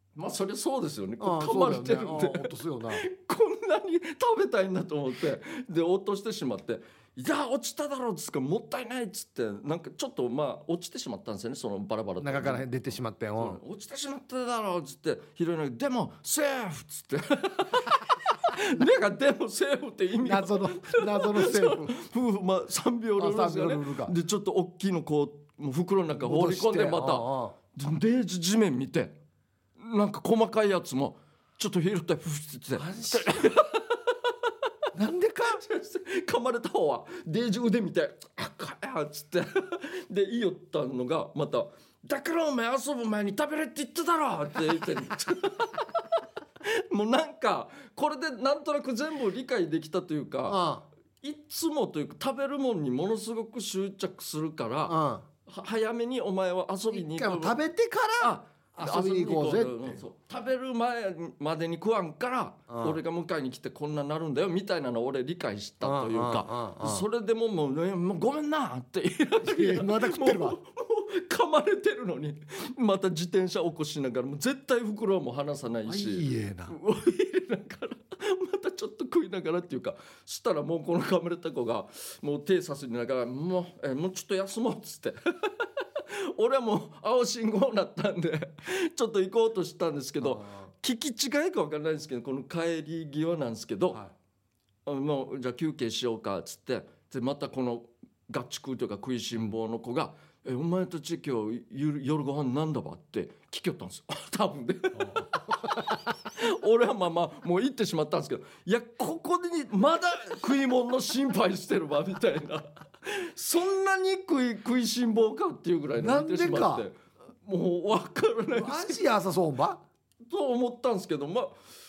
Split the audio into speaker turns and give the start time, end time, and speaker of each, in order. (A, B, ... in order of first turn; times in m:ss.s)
0:00.2-0:29.2 A
0:01.2-0:03.0 B
0:12.2-0:13.6 B
0:20.2-0:21.9 B
0:23.2-0:24.2 B
0:26.1-0:27.6 B
0:29.8-0:34.5 A
0:32.8-0:33.5 B
0:34.9-0:35.6 B
0:35.5-0:46.0 A
0:46.6-0:50.6 A
0:50.5-0:50.8 B
0:51.2-0:57.6 A
0:54.9-0:55.2 B
0:56.9-1:00.0 B
0:58.2-1:34.0 A
1:02.7-1:03.0 B
1:05.8-1:07.1 B
1:09.4-1:10.6 B
1:15.9-1:16.8 B
1:30.2-1:30.7 B
1:34.9-1:59.0 A
1:45.0-1:45.8 B
1:56.0-1:56.9 B
1:58.6-1:59.8 B
2:00.2-2:01.6 A